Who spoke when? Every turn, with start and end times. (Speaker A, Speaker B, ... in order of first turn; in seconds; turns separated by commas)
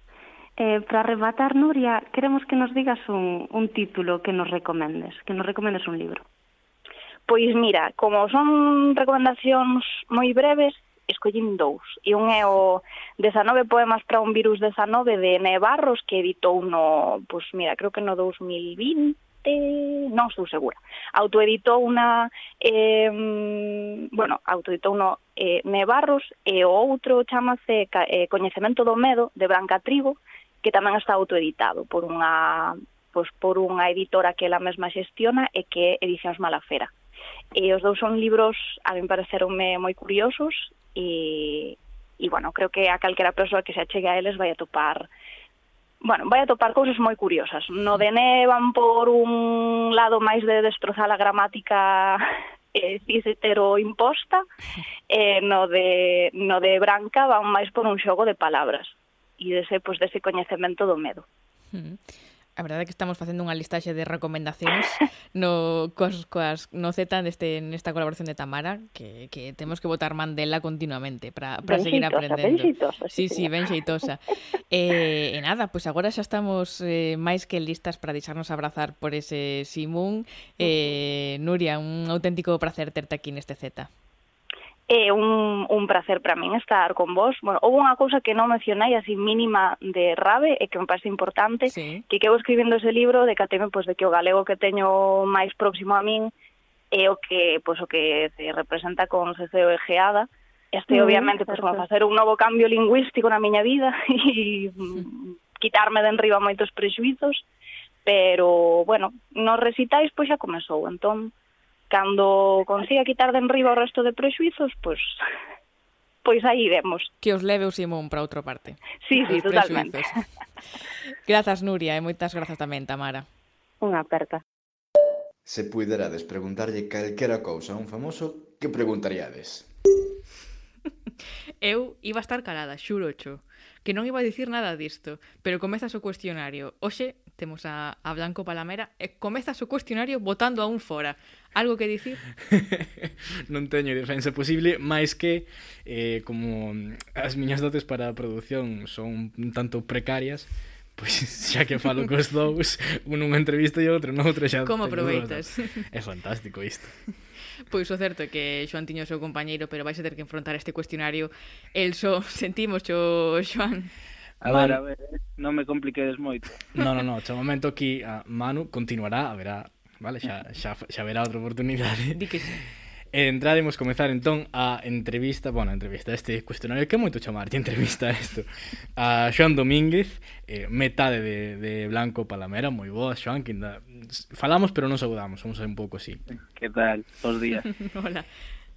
Speaker A: 0.6-6.2, Speaker B: 7.3-36.9, Speaker B: 37.5-45.1, Speaker B: 46.0-54.4, Speaker B: 55.1-61.2, Speaker C: 61.7-62.0, Speaker C: 62.6-83.9, Speaker B: 71.7-72.0, Speaker A: 72.1-73.0, Speaker B: 84.9-96.3, Speaker C: 91.7-92.0, Speaker B: 96.9-107.4, Speaker A: 100.9-101.8, Speaker B: 108.0-111.3, Speaker B: 111.9-115.1, Speaker B: 116.2-117.1, Speaker C: 117.2-120.2, Speaker B: 119.0-120.2, Speaker C: 121.2-123.2, Speaker A: 123.8-124.4, Speaker D: 125.5-129.7, Speaker C: 131.6-142.2, Speaker E: 142.5-157.0, Speaker C: 154.6-155.5, Speaker C: 157.7-163.9, Speaker F: 164.4-166.6, Speaker E: 164.4-164.8, Speaker E: 166.7-172.2, Speaker C: 172.1-172.6, Speaker E: 173.1-186.2, Speaker F: 186.5-187.7, Speaker C: 187.6-188.3